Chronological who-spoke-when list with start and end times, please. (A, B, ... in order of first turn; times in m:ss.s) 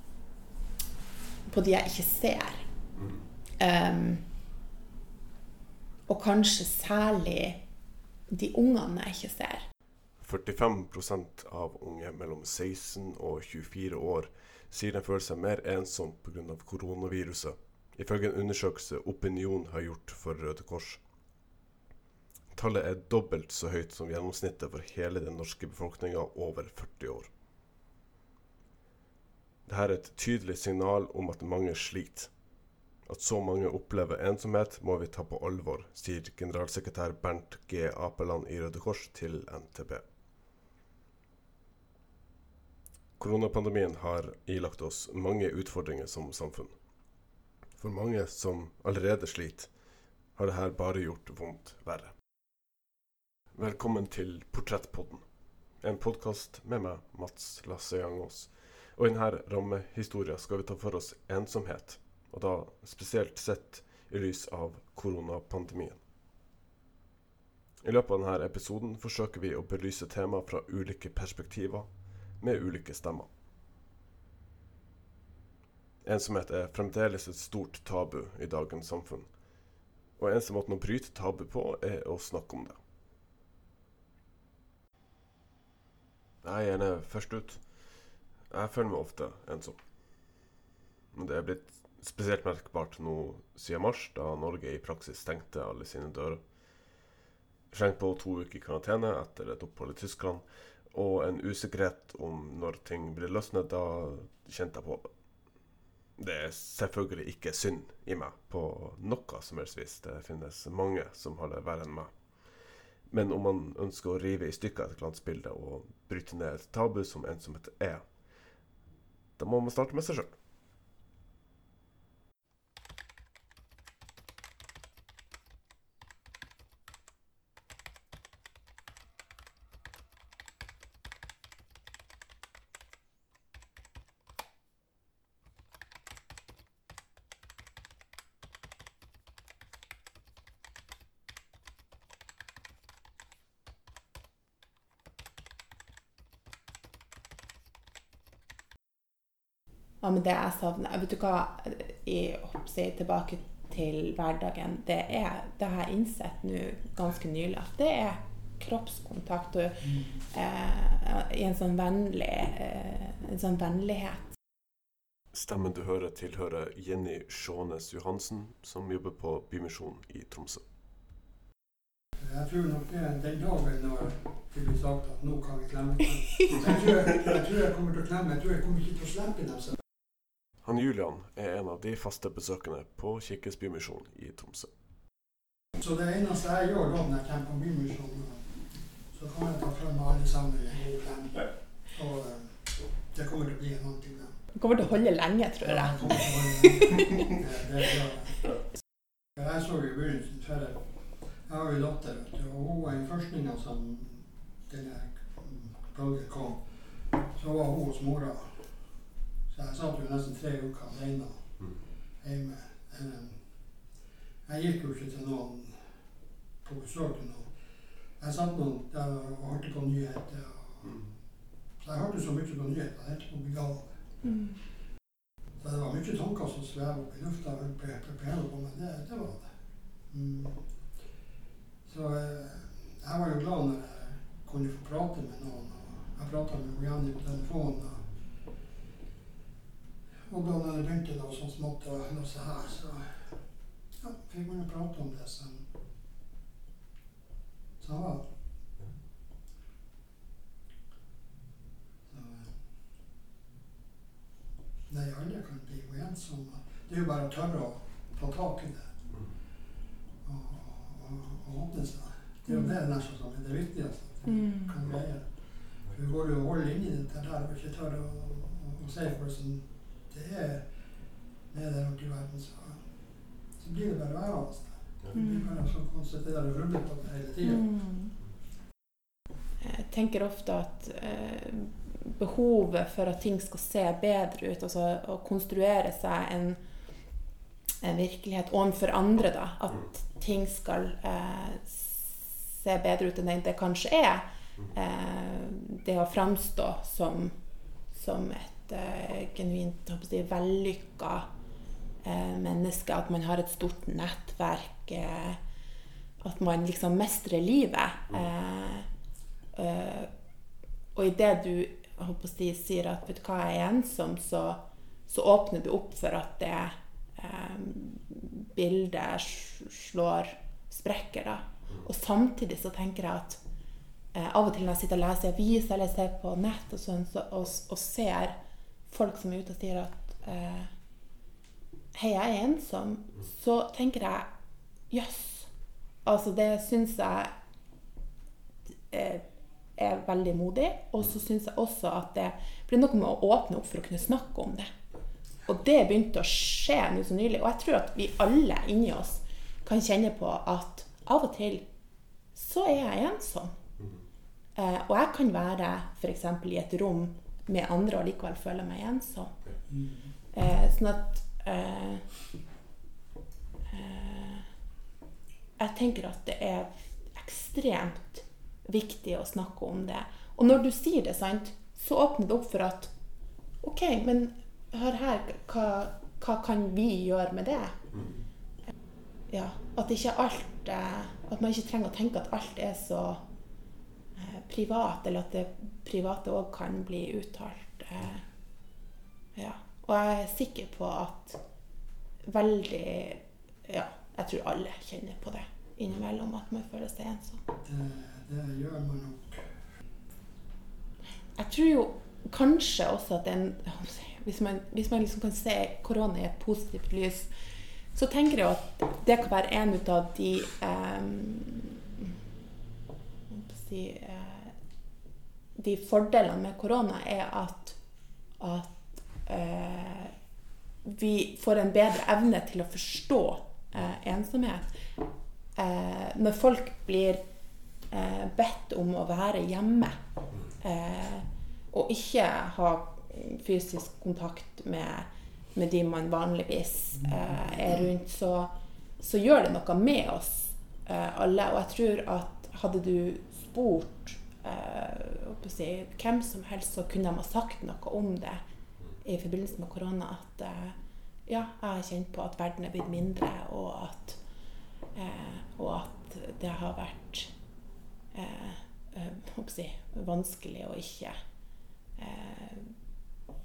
0:01.4-0:02.6 A
0:03.6-0:04.3 A
0:06.1-0:07.6 A
0:08.3-0:09.6 A
0:10.2-0:21.0 B
0:22.5-0:27.3 B
0:29.6-0:32.3 B
0:33.0-0:40.0 B
0:43.2-0:46.7 B
0:47.8-0:49.7 B
0:50.3-0:52.1 B
0:53.5-0:55.2 B
0:55.8-1:06.0 B
1:07.8-1:13.3 B
1:16.0-1:19.3 B
1:20.2-1:22.8 B
1:26.4-1:30.4 B
1:31.1-1:36.4 B
1:37.7-1:45.1 B
1:46.2-1:52.5 B
1:53.1-1:58.2 B
1:59.4-2:00.4 B
2:30.0-2:44.3 A
2:39.8-2:40.2 C
2:45.3-2:50.6 B
2:52.2-2:59.8 C
3:00.6-3:04.7 B
3:05.8-3:14.4 C
3:14.6-3:17.3 A
3:15.6-3:18.5 C
3:19.4-3:28.9 C
3:29.5-3:31.5 C
3:32.2-3:33.4 C
3:34.4-3:35.9 C
3:36.6-3:37.5 C
3:38.2-3:41.0 C
3:41.8-3:43.9 C
3:45.6-3:49.5 C
3:50.1-3:50.6 C
3:51.8-3:58.0 C
4:00.2-4:03.3 C
4:03.9-4:05.6 C
4:07.8-4:08.2 C
4:12.1-4:12.5 C
4:14.9-4:18.9 C
4:20.2-4:25.3 C
4:22.5-4:22.7 A
4:24.2-4:24.7 A
4:25.9-4:30.7 C
4:31.5-4:32.8 C
4:33.6-4:37.7 C
4:35.1-4:35.5 A
4:37.4-4:38.1 A
4:39.6-4:46.6 A
4:47.8-4:57.4 A
4:57.9-5:01.3 A
5:02.0-5:05.4 A
5:06.2-5:08.9 A
5:09.5-5:10.1 A
5:10.9-5:23.4 A
5:24.1-5:30.7 A
5:31.9-5:34.3 A
5:34.9-5:35.5 A
5:36.0-5:37.3 A
5:38.9-5:39.2 A
5:39.8-5:44.7 A
5:45.4-5:51.6 A
5:52.3-5:53.5 A
5:54.6-5:59.3 A
5:59.7-6:00.1 C
6:00.3-6:02.0 A
6:03.7-6:04.5 A
6:05.6-6:12.9 A
6:13.6-6:17.8 A
6:19.3-6:23.2 A
6:24.2-6:28.2 A
6:29.4-6:31.4 A
6:32.2-6:37.4 A
6:37.6-6:39.5 C
6:41.4-6:47.3 A
6:47.9-6:52.2 A
6:53.3-6:54.5 A
6:55.6-6:57.8 A
6:58.4-7:00.1 A
7:00.8-7:04.9 A
7:05.6-7:07.2 A
7:07.9-7:10.0 A
7:10.6-7:28.4 A
7:17.0-7:17.5 C
7:29.0-7:34.2 A
7:34.9-7:37.3 A
7:38.1-7:41.2 A
7:42.0-7:42.8 A